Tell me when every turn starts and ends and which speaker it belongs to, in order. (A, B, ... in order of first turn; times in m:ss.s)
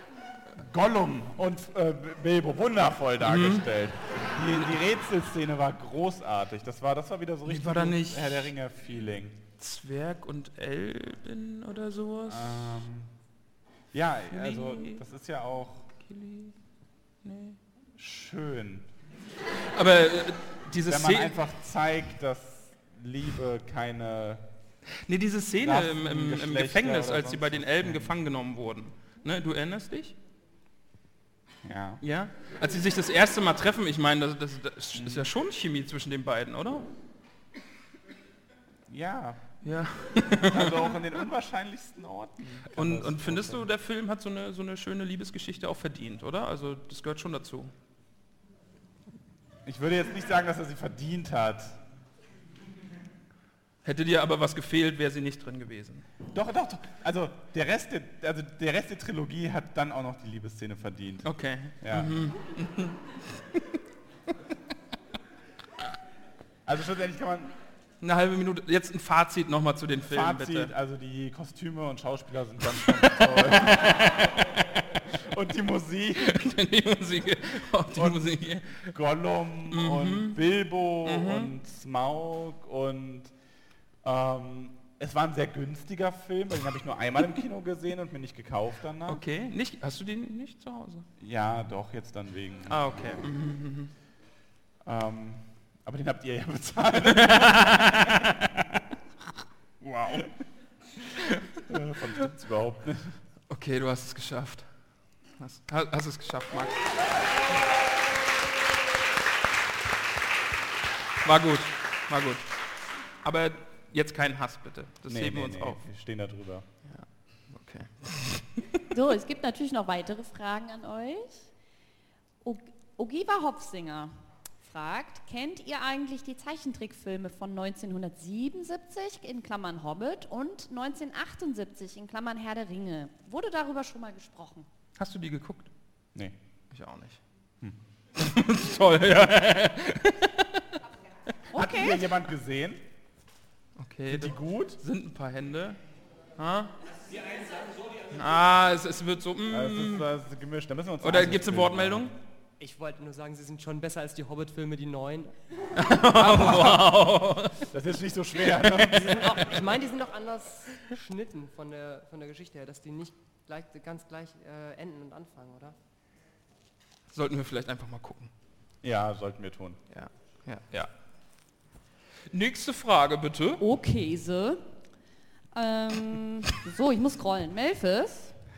0:00.6-0:09.4 A
0:03.2-0:03.7 B
0:04.5-0:04.7 B
0:07.4-0:08.5 B
0:09.6-0:12.7 B
0:12.3-0:13.1 A
0:13.9-0:15.9 A
0:14.3-0:15.0 B
0:16.0-0:16.5 B
0:17.2-0:17.6 B
0:18.0-0:18.9 A
0:19.7-0:21.3 B
0:20.8-0:24.4 A
0:25.0-0:30.2 B
0:25.6-0:28.1 A
0:31.6-0:32.0 A
0:32.0-0:36.8 B
0:35.0-0:35.3 A
0:38.9-0:39.6 A
0:39.6-0:41.0 B
0:40.5-0:43.6 A
0:42.8-0:47.7 B
0:49.6-0:51.8 A
0:53.8-0:56.0 B
0:56.3-1:01.3 A
1:01.2-1:03.6 B
1:01.8-1:02.2 A
1:06.6-1:07.5 A
1:08.0-1:10.7 B
1:10.1-1:16.4 A
1:12.8-1:14.4 B
1:16.2-1:18.9 B
1:17.9-1:23.3 A
1:19.7-1:20.4 B
1:21.0-1:21.5 B
1:24.0-1:29.2 A
1:29.1-1:31.1 B
1:31.2-1:32.9 A
1:32.7-1:33.9 B
1:34.8-1:38.6 A
1:37.0-1:38.5 B
1:39.8-1:40.3 B
1:41.6-1:43.2 A
1:43.5-1:44.7 B
1:45.4-1:46.9 B
1:51.2-1:52.5 B
1:53.2-1:55.8 B
1:55.1-1:56.6 A
1:56.8-1:58.6 B
1:58.9-2:01.5 C
2:02.4-2:14.6 C
2:15.0-2:15.7 B
2:16.7-2:17.2 B
2:18.2-2:20.6 B
2:21.5-2:22.0 C
2:21.5-2:22.8 A
2:23.8-2:25.8 B
2:24.1-2:24.8 A
2:26.4-2:26.7 B
2:28.1-2:30.1 B
2:29.5-2:32.1 A
2:31.0-2:32.1 B
2:32.6-2:35.3 D
2:35.8-2:37.6 B
2:36.2-2:37.0 A
2:37.7-2:39.5 A
2:38.6-2:39.0 B
2:39.0-2:45.7 D
2:47.1-2:48.3 B
2:48.8-2:49.8 A
2:49.9-2:50.9 B
2:52.3-2:53.6 B
2:53.6-2:54.6 C
2:55.5-2:58.3 C